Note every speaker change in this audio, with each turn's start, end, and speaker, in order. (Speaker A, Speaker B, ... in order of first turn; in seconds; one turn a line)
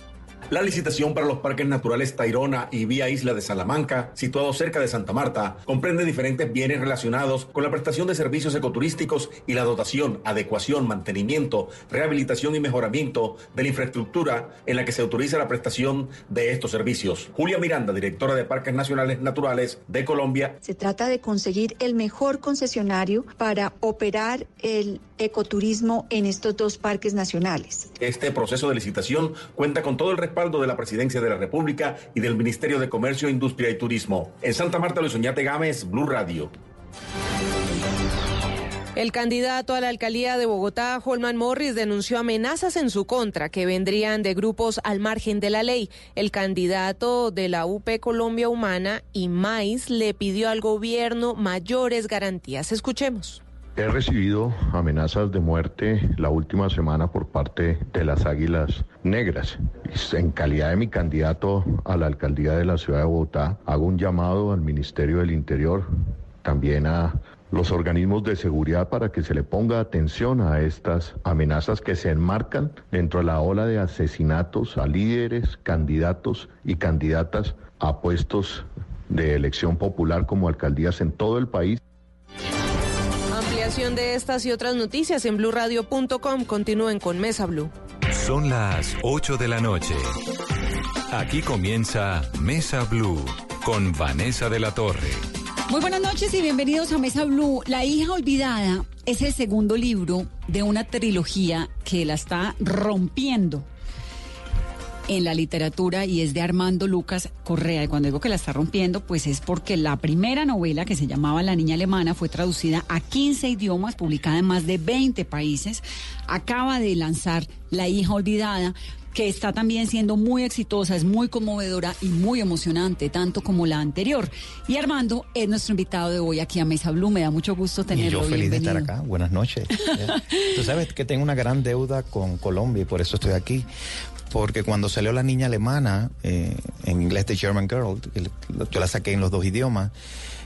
Speaker A: 0.5-20.6
Speaker B: 20.6-27.8
Speaker A: 28.0-36.5
Speaker C: 39.0-53.4
Speaker D: 53.8-65.9
Speaker D: 66.4-81.8
Speaker C: 83.3-87.7
Speaker E: 88.1-90.1
Speaker E: 91.1-95.2
Speaker F: 95.7-103.7
Speaker F: 105.1-128.9
Speaker G: 127.9-133.7
Speaker F: 129.8-130.4
Speaker G: 134.3-139.9